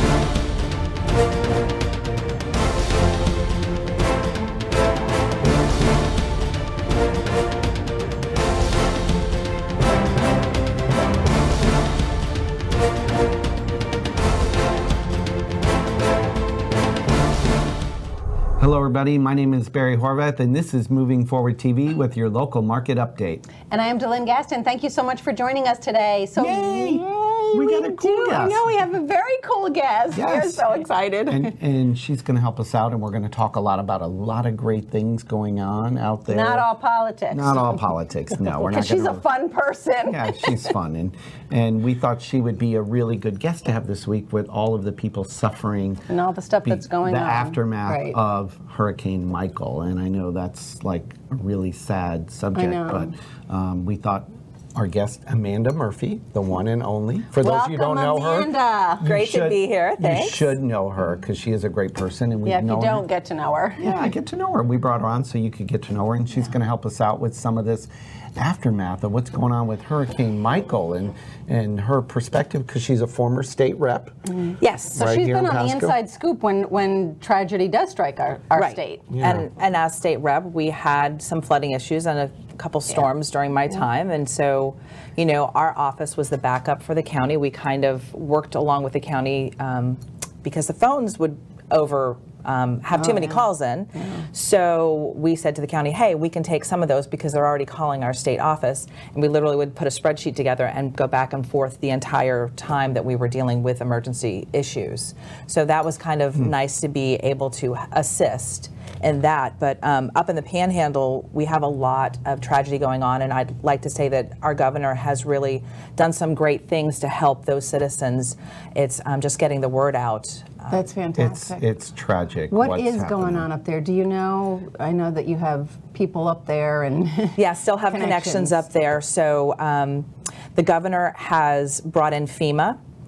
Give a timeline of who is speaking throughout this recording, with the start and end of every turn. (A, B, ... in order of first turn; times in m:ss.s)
0:18.6-0:23.5 A
0:23.7-0:31.5 B
0:26.4-0:28.7 A
0:30.1-0:30.6 A
0:31.3-0:36.7 A
0:36.3-0:37.9 B
0:37.3-0:39.2 A
0:38.4-0:40.7 B
0:40.1-0:46.0 A
0:46.1-0:48.2 B
0:46.6-1:03.0 A
0:52.6-0:53.1 B
0:57.4-0:59.1 B
0:59.0-1:00.6 C
1:02.4-1:04.0 B
1:03.8-1:14.1 A
1:14.5-1:19.1 B
1:14.6-1:15.1 C
1:15.0-1:16.0 A
1:18.6-2:00.8 C
1:19.1-1:19.5 A
1:33.0-1:33.4 B
1:34.0-1:34.2 B
2:00.7-2:01.6 B
2:01.2-2:03.5 A
2:02.5-2:08.6 B
2:07.4-2:12.8 C